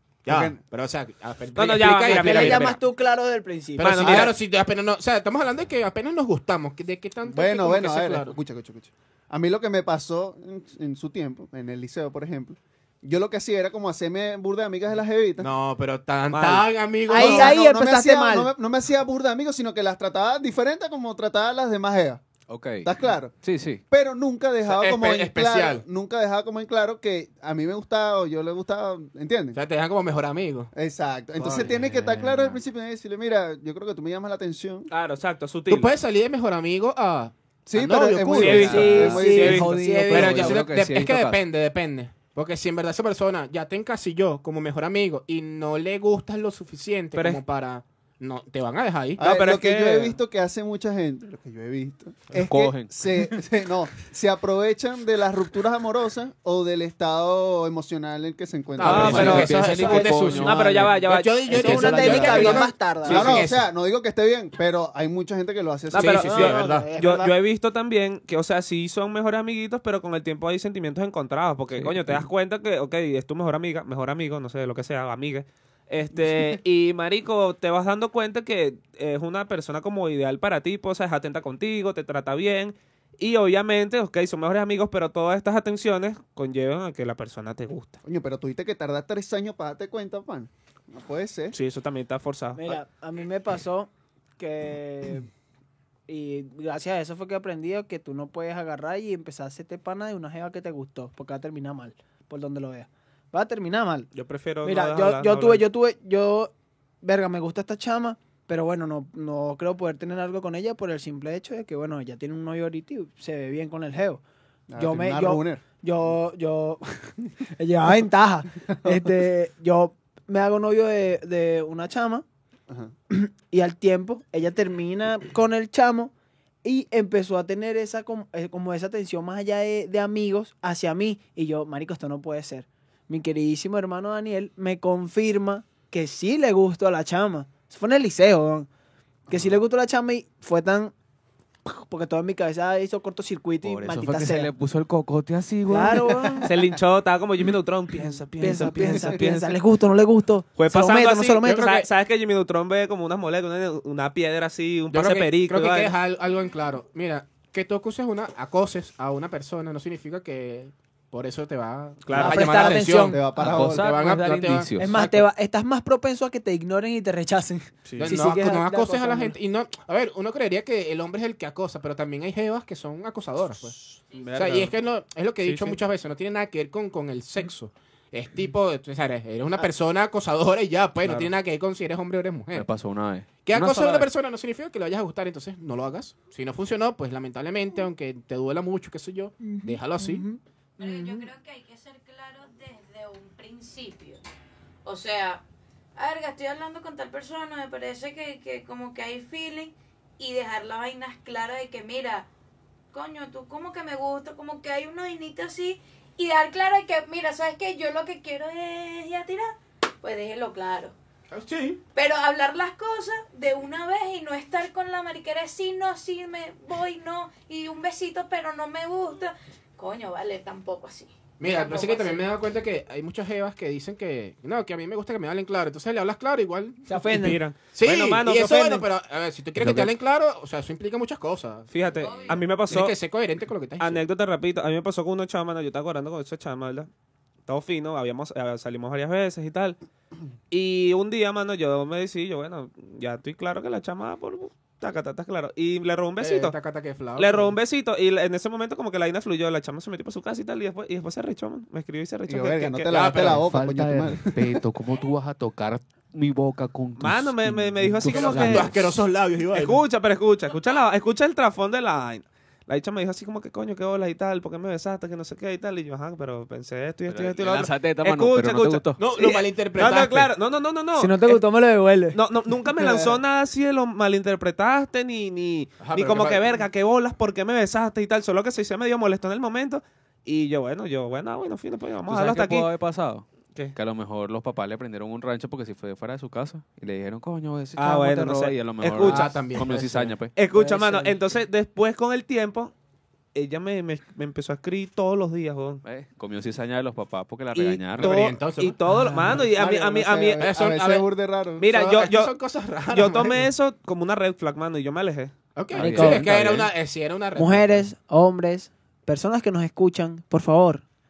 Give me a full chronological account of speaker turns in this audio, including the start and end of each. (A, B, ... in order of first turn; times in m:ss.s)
0:00.2-0:02.8 A
0:00.3-0:00.6 B
0:01.6-0:02.7 C
0:02.1-0:04.1 D
0:03.8-0:04.3 C
0:03.8-0:08.3 A
0:04.0-0:04.3 B
0:07.3-0:15.5 B
0:15.4-0:17.5 A
0:16.3-0:16.7 C
0:17.1-0:18.5 D
0:17.1-0:22.2 B
0:22.5-0:23.8 E
0:22.8-0:23.3 B
0:23.9-0:29.6 B
0:24.6-0:25.8 A
0:29.5-0:30.7 A
0:30.7-0:34.9 B
0:31.4-0:31.7 A
0:31.4-0:32.6 E
0:34.9-0:35.9 C
0:35.7-0:37.3 A
0:37.6-0:39.7 B
0:37.8-0:40.6 D
0:38.2-0:39.7 C
0:38.3-0:41.4 E
0:40.1-0:49.2 A
0:47.1-0:47.4 C
0:49.2-0:59.5 B
0:49.2-0:50.2 C
0:52.4-0:52.9 E
0:58.8-1:03.7 A
0:58.8-1:01.0 E
0:58.8-1:02.6 C
0:59.8-1:00.2 D
1:01.5-1:03.4 D
1:01.5-1:02.6 E
1:03.0-1:06.3 B
1:05.9-1:28.0 C
1:05.9-1:06.9 A
1:06.2-1:07.3 D
1:11.7-1:12.3 E
1:16.2-1:16.6 B
1:28.0-1:31.5 B
1:31.5-1:32.8 C
1:32.5-1:35.3 D
1:36.1-1:44.1 D
1:44.1-1:45.6 C
1:44.6-1:54.2 D
1:54.7-1:55.6 B
1:54.8-2:02.2 D
1:58.6-1:59.0 B
2:03.1-2:06.1 D
2:06.6-2:18.7 D
2:19.3-2:20.9 D
2:21.6-2:24.5 D
2:23.6-2:26.5 E
2:25.7-2:26.5 D
2:26.4-2:29.6 C
2:28.4-2:31.6 D
2:28.4-2:29.3 E
2:30.6-2:35.9 C
2:31.4-2:31.9 A
2:34.9-2:45.1 A
2:42.0-2:42.8 C
2:42.1-2:43.2 D
2:43.0-2:44.1 B
2:43.4-2:45.2 E
2:44.8-2:49.4 D
2:48.0-2:53.7 A
2:54.2-2:54.7 E
2:54.3-3:02.7 A
2:55.4-2:55.8 C
3:01.0-3:01.3 C
3:02.5-3:04.1 E
3:03.4-3:10.2 A
3:09.4-3:11.3 D
3:10.8-3:14.2 F
3:14.8-3:15.4 F
3:15.9-3:22.3 F
3:22.9-3:30.9 F
3:31.3-3:31.8 A
3:31.9-3:42.3 F
3:41.4-3:46.8 A
3:46.9-3:47.4 D
3:47.1-3:48.8 C
3:47.7-3:51.7 A
3:49.6-3:49.9 E
3:51.7-3:53.0 C
3:51.8-3:52.5 F
3:52.6-3:54.0 A
3:53.8-3:56.9 C
3:57.5-3:59.8 C
4:00.5-4:06.5 C
4:06.2-4:07.6 A
4:07.2-4:13.0 C
4:12.3-4:14.6 B
4:12.9-4:13.4 A
4:13.2-4:18.9 E
4:17.0-4:18.7 C
4:18.1-4:19.8 A
4:19.5-4:31.4 C
4:27.1-4:29.0 E
4:29.0-4:30.3 A
4:31.0-4:32.2 D
4:32.1-4:42.7 C
4:32.8-4:33.2 B
4:35.8-4:36.4 A
4:42.1-4:50.3 E
4:47.8-4:49.3 C
4:49.0-4:50.2 A
4:50.3-4:52.7 C
4:50.5-4:51.4 D
4:53.3-4:55.8 C
4:55.8-4:58.2 E
4:57.5-5:01.0 C
4:58.0-4:59.4 A
4:59.5-5:01.6 B
5:00.4-5:00.9 A
5:01.6-5:02.4 C
5:01.6-5:03.5 A
5:02.9-5:05.3 C
5:05.5-5:07.8 A
5:05.7-5:06.7 E
5:05.7-5:06.3 D
5:07.4-5:10.8 D